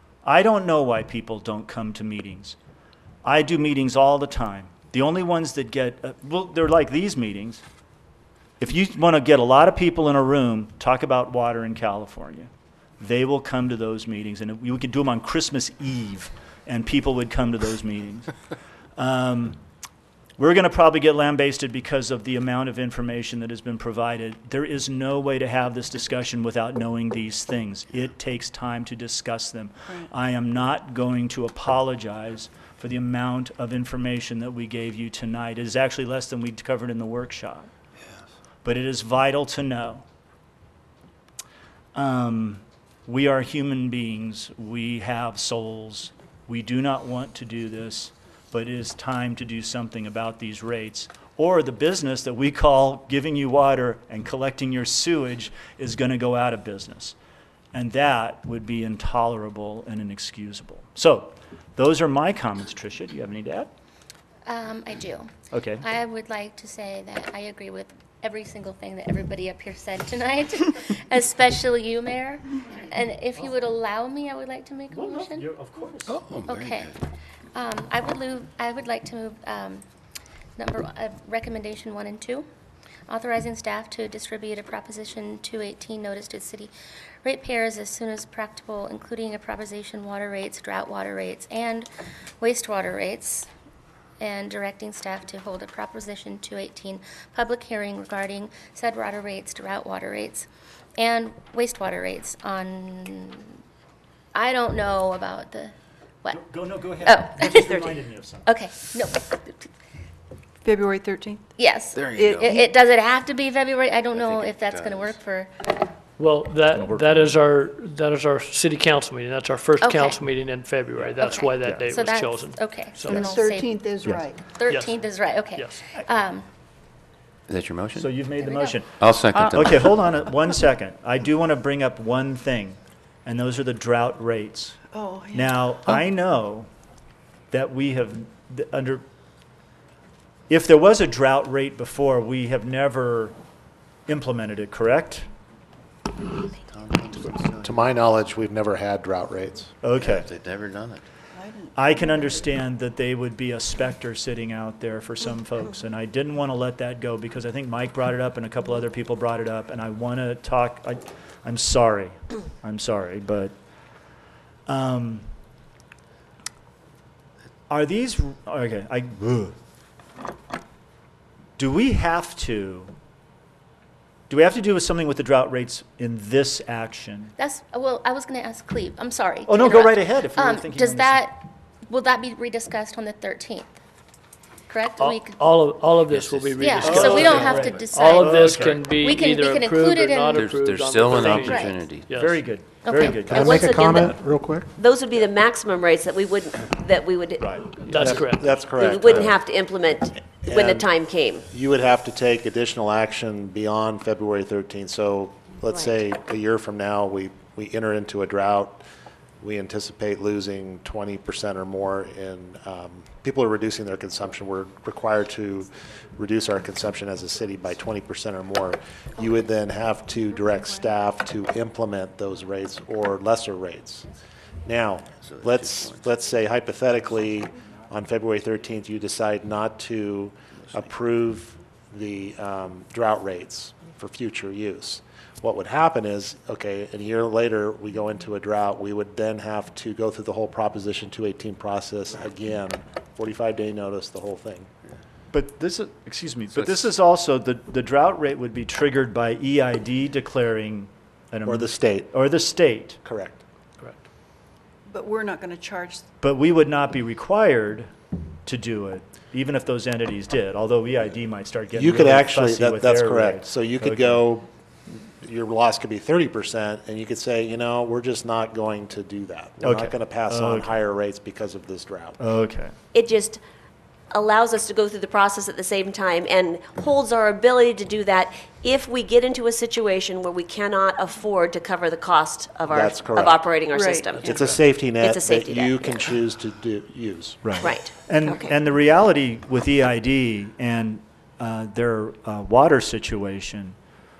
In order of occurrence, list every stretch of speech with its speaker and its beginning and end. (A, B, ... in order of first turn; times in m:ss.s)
0:00.2-0:02.6 A
0:03.2-0:07.6 A
0:08.6-0:12.5 A
0:13.0-0:18.3 A
0:19.0-0:19.6 A
0:20.4-0:37.7 A
0:38.6-0:40.0 A
0:41.9-0:57.1 A
0:57.7-1:03.7 A
1:04.5-1:15.5 B
1:05.5-1:05.8 A
1:14.9-1:16.2 A
1:16.1-1:16.9 C
1:16.4-1:16.9 B
1:17.5-1:19.8 B
1:20.6-1:22.4 B
1:23.1-1:26.7 B
1:27.2-1:33.5 B
1:34.2-1:43.6 B
1:44.3-1:46.5 B
1:46.3-1:48.5 A
1:47.0-1:47.9 B
1:47.6-1:47.9 D
1:48.4-1:49.7 B
1:50.6-1:51.5 E
1:51.6-1:55.8 B
1:51.9-1:52.7 C
1:52.1-1:52.4 E
1:54.1-1:55.2 C
1:56.2-2:03.3 F
1:56.7-1:57.3 A
1:59.8-2:00.2 B
2:01.2-2:03.8 B
2:01.6-2:01.9 A
2:03.1-2:04.4 E
2:04.5-2:06.4 B
2:04.7-2:05.0 F
2:05.5-2:05.8 F
2:07.5-2:08.2 C
2:08.0-2:14.8 A
2:08.4-2:08.7 B
2:09.0-2:10.0 C
2:14.9-2:15.6 E
2:15.3-2:16.7 A
2:17.5-2:19.0 A
2:20.5-2:23.3 A
2:24.1-2:25.2 A
2:26.5-2:27.8 C
2:27.6-2:29.7 G
2:29.8-2:30.3 A
2:29.9-2:31.0 C
2:31.3-2:32.5 E
2:31.7-2:43.5 A
2:44.7-2:45.2 A
2:47.7-2:49.6 A
2:51.6-2:52.9 A
2:54.3-2:57.3 A
2:57.4-3:03.8 B
2:59.5-3:01.2 A
3:04.7-3:05.5 B
3:05.0-3:12.5 F
3:06.1-3:08.5 C
3:06.6-3:10.4 B
3:06.8-3:08.8 A
3:10.3-3:12.2 C
3:11.2-3:13.6 A
3:11.5-3:11.8 B
3:12.8-3:13.3 B
3:13.3-3:14.7 G
3:13.3-3:14.2 D
3:14.7-3:18.0 D
3:17.4-3:17.7 A
3:17.8-3:18.7 F
3:17.9-3:19.4 G
3:18.7-3:21.4 D
3:20.4-3:20.9 G
3:21.5-3:28.8 G
3:25.7-3:26.0 D
3:29.4-3:44.1 G
3:40.4-3:40.8 E
3:44.6-4:04.7 G
3:45.2-3:46.1 C
4:05.3-4:13.0 A
4:11.4-4:12.1 G
4:13.0-4:13.4 G
4:14.9-4:16.0 E
4:16.2-4:17.9 A
4:18.4-4:24.2 A
4:21.7-4:32.2 G
4:29.6-4:30.7 A
4:32.2-4:32.7 A
4:32.9-4:33.4 D
4:34.1-4:46.1 D
4:42.7-4:43.5 G
4:43.7-4:44.1 E
4:44.0-4:44.6 F
4:44.2-4:47.7 G
4:47.4-4:53.7 A
4:47.6-4:48.5 D